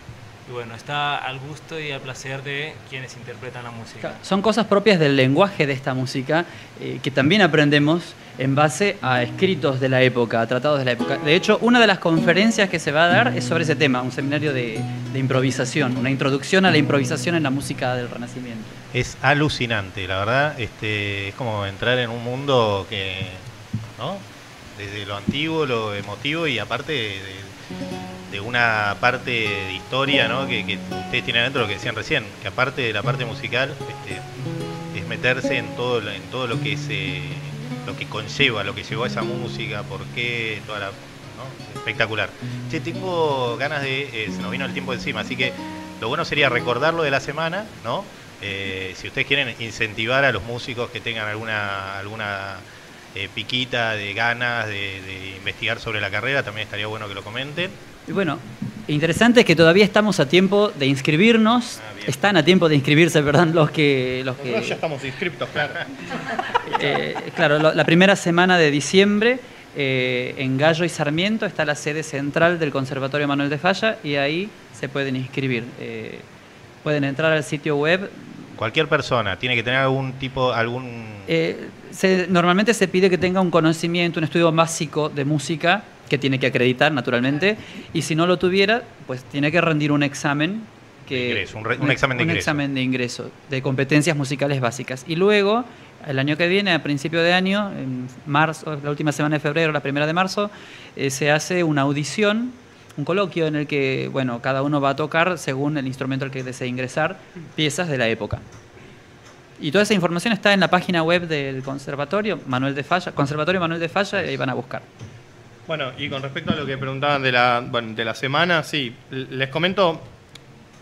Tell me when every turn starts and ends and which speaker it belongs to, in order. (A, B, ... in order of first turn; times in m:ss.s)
0:00.4-0:04.2 A
0:04.0-0:18.8 B
0:18.9-0:27.5 C
0:28.3-0:34.3 C
0:34.9-0:57.8 C
0:58.1-1:04.8 B
1:01.8-1:02.2 C
1:04.4-1:05.9 D
1:06.6-1:16.2 B
1:16.8-1:18.3 B
1:18.6-1:21.3 C
1:21.3-1:48.4 B
1:31.1-1:32.6 C
1:49.6-1:54.8 B
1:55.7-2:00.1 D